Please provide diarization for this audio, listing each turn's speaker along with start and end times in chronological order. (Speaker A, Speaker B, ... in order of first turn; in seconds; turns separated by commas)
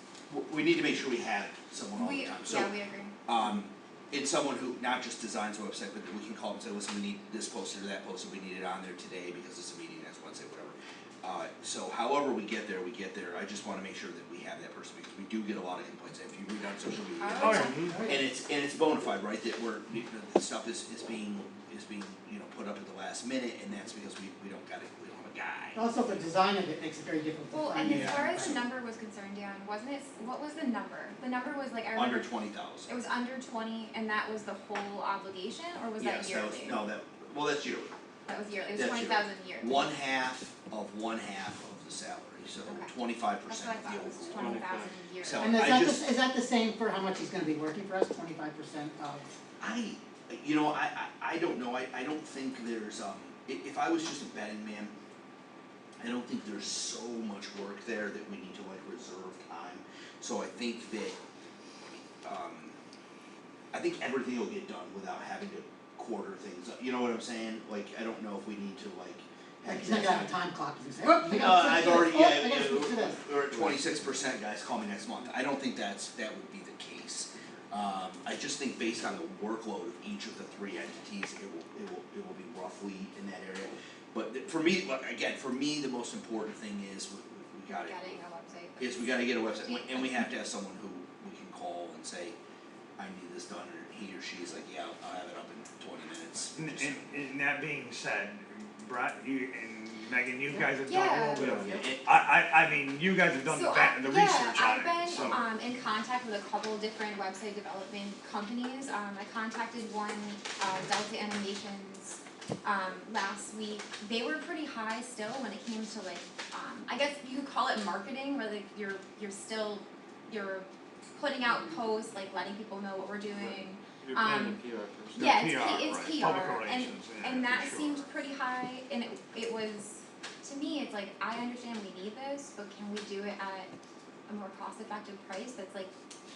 Speaker A: 0.3-2.8, Speaker B: 2.0-3.1, Speaker A: 3.3-25.8, Speaker B: 17.2-17.8, Speaker C: 17.4-18.0, Speaker D: 17.8-18.2, Speaker D: 25.8-28.6, Speaker B: 27.5-32.3, Speaker A: 27.8-28.5, Speaker A: 31.9-32.9, Speaker B: 32.9-36.8, Speaker A: 36.0-37.9, Speaker B: 38.3-39.9, Speaker A: 38.8-46.1, Speaker B: 42.7-45.7, Speaker C: 44.3-45.0, Speaker D: 45.4-49.3, Speaker A: 49.6-54.9, Speaker A: 56.0-61.2, Speaker A: 61.9-62.8, Speaker A: 63.7-70.4, Speaker D: 69.7-73.3, Speaker A: 71.2-88.2, Speaker B: 87.7-90.2, Speaker A: 88.8-92.4, Speaker A: 93.0-97.1, Speaker E: 96.5-105.4, Speaker B: 100.9-101.5, Speaker C: 101.4-101.8, Speaker A: 101.6-102.0, Speaker B: 103.5-124.6, Speaker C: 123.3-125.3, Speaker E: 125.2-128.1, Speaker B: 125.2-133.7, Speaker B: 134.3-135.9